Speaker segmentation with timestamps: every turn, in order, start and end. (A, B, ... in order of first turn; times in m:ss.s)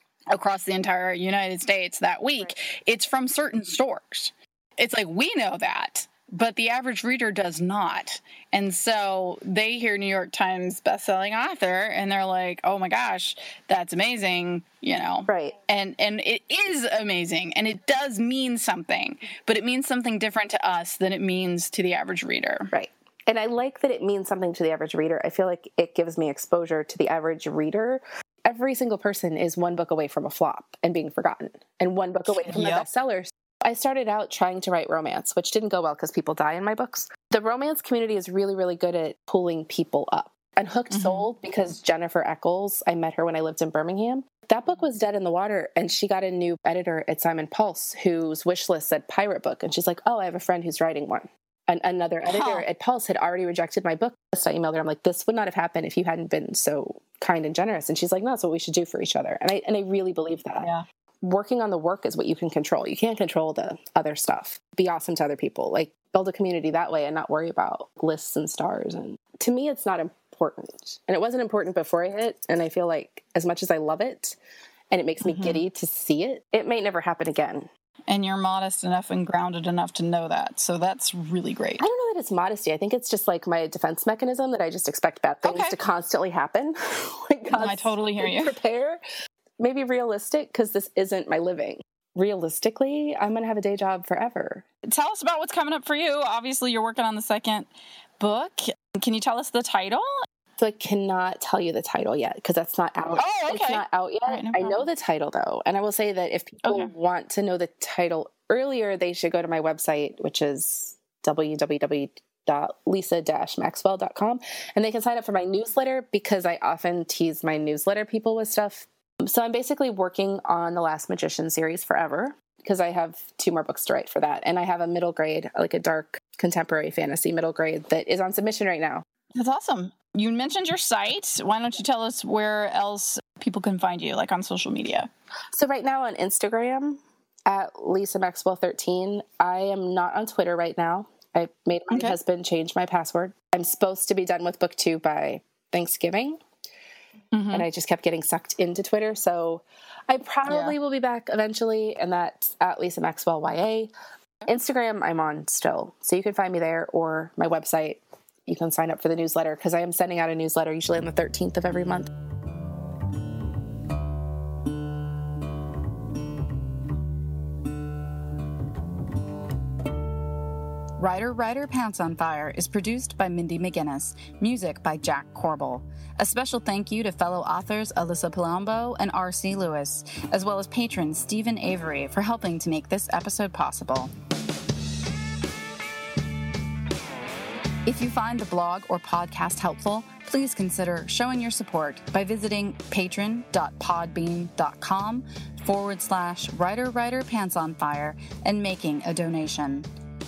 0:00.3-0:22.7 A
0:15.3-0:15.6 B
0:22.7-1:00.7 B
0:32.3-0:32.9 A
0:40.9-0:41.3 A
0:52.3-0:52.7 A
1:01.2-1:14.4 B
1:14.9-1:17.7 B
1:15.2-1:15.6 A
1:18.1-1:21.9 A
1:21.8-1:29.0 B
1:25.4-1:25.8 A
1:27.5-1:28.6 A
1:29.6-1:34.6 B
1:34.9-1:37.7 A
1:38.2-1:40.1 A
1:40.6-2:09.0 B
1:43.2-1:44.8 A
1:46.6-1:46.9 A
2:09.3-2:15.1 A
2:15.5-2:26.4 B
2:27.3-2:27.7 A
2:27.5-2:33.9 B
2:30.5-2:30.8 A
2:34.5-2:42.1 B
2:51.0-3:04.1 C
3:07.8-3:19.9 C